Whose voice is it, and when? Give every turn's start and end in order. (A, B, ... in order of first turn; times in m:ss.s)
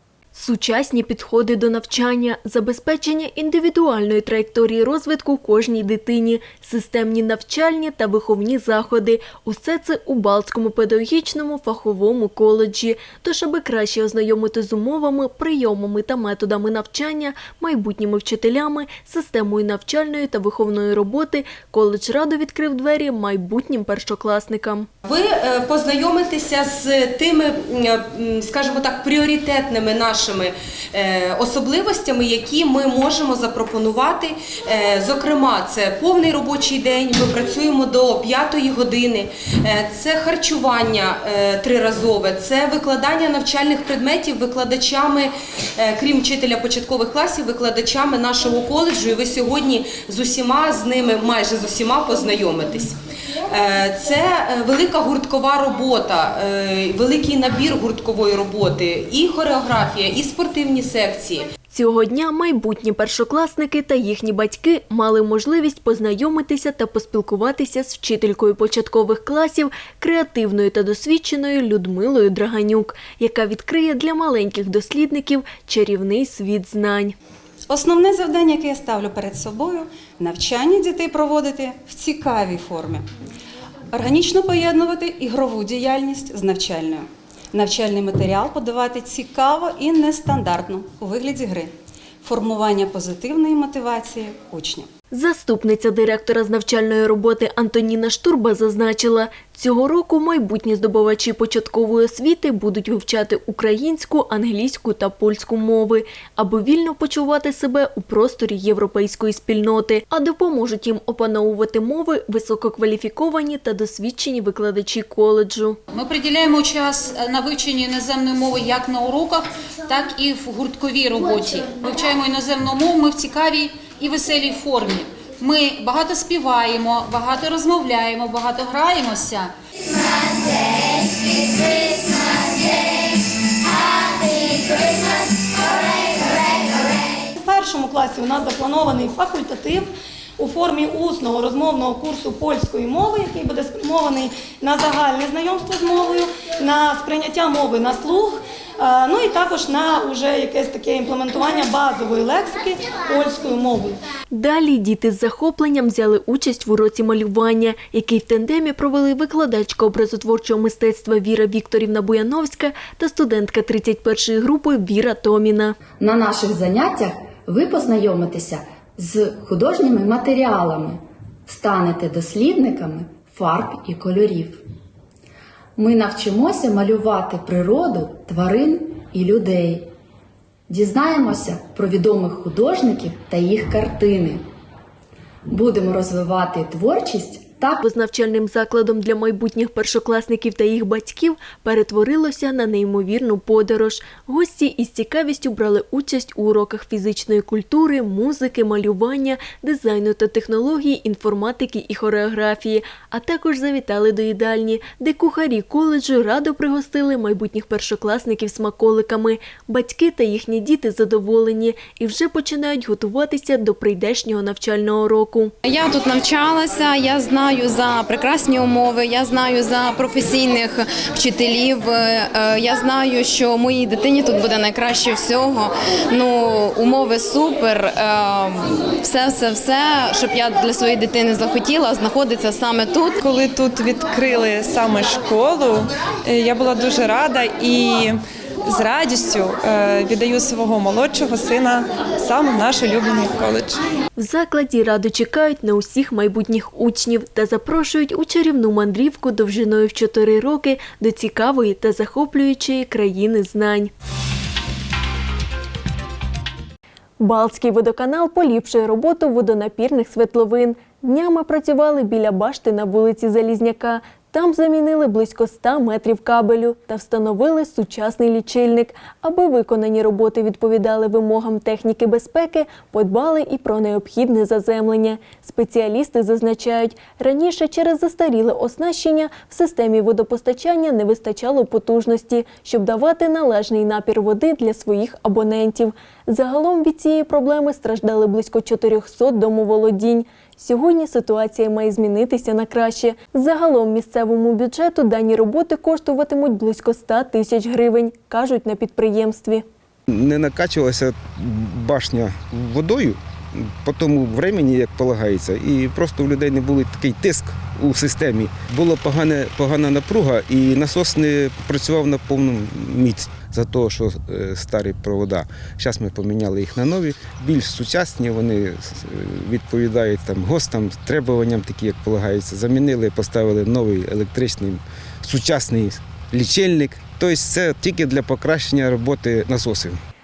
0:00.4-0:24.9 A
0:25.0-1:01.5 B
1:01.7-1:17.2 A
1:17.7-1:23.1 C
1:23.9-1:34.9 C
1:35.1-1:55.8 A
1:55.9-2:09.5 D
2:17.3-2:34.0 E
2:34.3-2:45.8 A
2:46.0-2:54.6 F
2:55.8-2:59.9 F
3:00.7-3:04.4 F
3:05.5-3:07.8 F
3:07.8-3:35.5 A
3:35.6-3:53.2 G
3:53.2-3:58.1 H
3:58.7-4:03.8 H
4:04.2-4:13.9 A
4:17.2-4:59.6 A
5:00.1-5:30.0 I